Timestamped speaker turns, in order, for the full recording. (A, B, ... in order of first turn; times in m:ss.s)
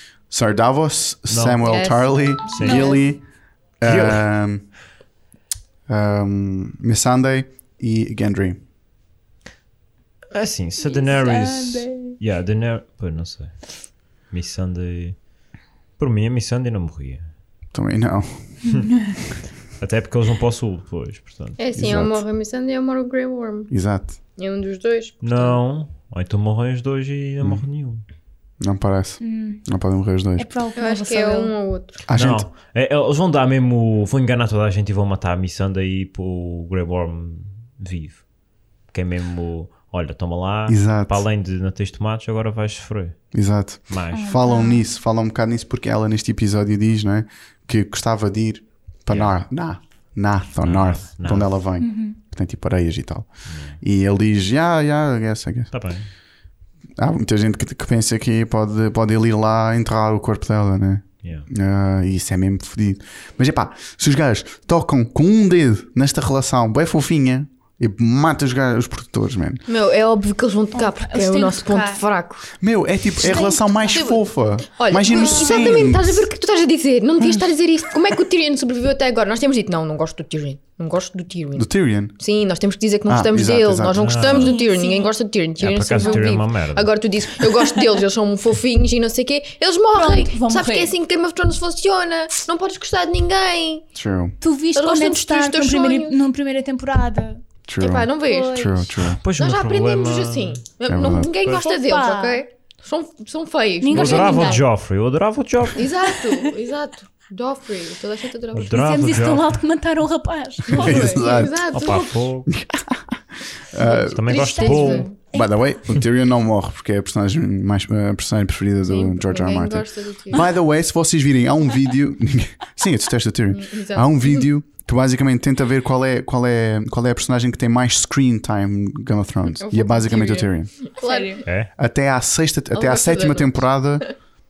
0:00.3-0:03.2 A
0:01.3-0:01.6 B
0:01.6-0:03.0 C
0:02.5-0:02.9 B
0:02.7-0:03.0 D
0:03.8-0:04.7 A
0:03.8-0:04.2 B
0:05.9-0:08.6 A
0:10.3-0:15.2 B
0:10.8-0:12.2 D
0:15.9-0:17.3 B
0:17.7-0:18.5 A
0:19.8-0:21.6 B
0:21.6-0:23.7 C
0:21.7-0:22.2 A
0:23.7-0:24.2 A
0:24.4-0:25.6 C
0:25.2-0:28.0 B
0:28.6-0:30.5 A
0:29.2-0:29.6 D
0:30.4-0:31.5 D
0:30.8-0:32.0 C
0:32.1-0:32.5 A
0:32.1-0:38.3 B
0:38.9-0:43.2 B
0:40.7-0:41.2 A
0:43.3-0:55.7 A
0:43.9-0:44.3 B
0:44.1-0:44.8 D
0:49.1-0:49.4 B
0:50.6-0:51.5 B
0:51.8-0:52.2 D
0:53.4-0:53.8 B
0:55.7-0:56.1 B
0:57.0-1:09.6 A
1:01.2-1:01.5 B
1:09.7-1:12.5 C
1:10.7-1:12.0 D
1:12.6-1:16.2 A
1:13.2-1:14.2 D
1:13.9-1:33.8 C
1:15.0-1:16.0 D
1:21.5-1:22.1 A
1:23.1-1:24.3 A
1:24.0-1:24.6 B
1:24.2-1:25.1 D
1:25.6-1:26.9 B
1:26.0-1:26.3 D
1:29.9-1:30.9 D
1:33.9-1:34.3 A
1:34.4-1:37.4 D
1:34.7-1:36.2 C
1:37.7-1:39.2 A
1:37.8-1:38.8 C
1:38.3-1:38.9 D
1:39.0-1:40.6 B
1:39.4-1:44.6 C
1:40.9-1:41.3 A
1:41.4-1:42.4 D
1:43.8-1:44.6 D
1:43.9-1:45.8 B
1:45.8-1:48.8 C
1:48.5-1:49.6 B
1:48.6-1:51.3 D
1:50.7-1:52.2 C
1:50.7-1:51.6 A
1:51.7-1:52.5 B
1:52.5-2:10.8 A
1:53.8-1:55.1 C
1:53.8-1:55.6 D
1:54.1-1:55.1 B
1:58.8-2:00.4 C
2:03.5-2:04.5 C
2:09.6-2:11.4 C
2:11.0-2:11.4 D
2:11.4-2:11.7 B
2:11.7-2:14.2 A
2:12.7-2:14.1 C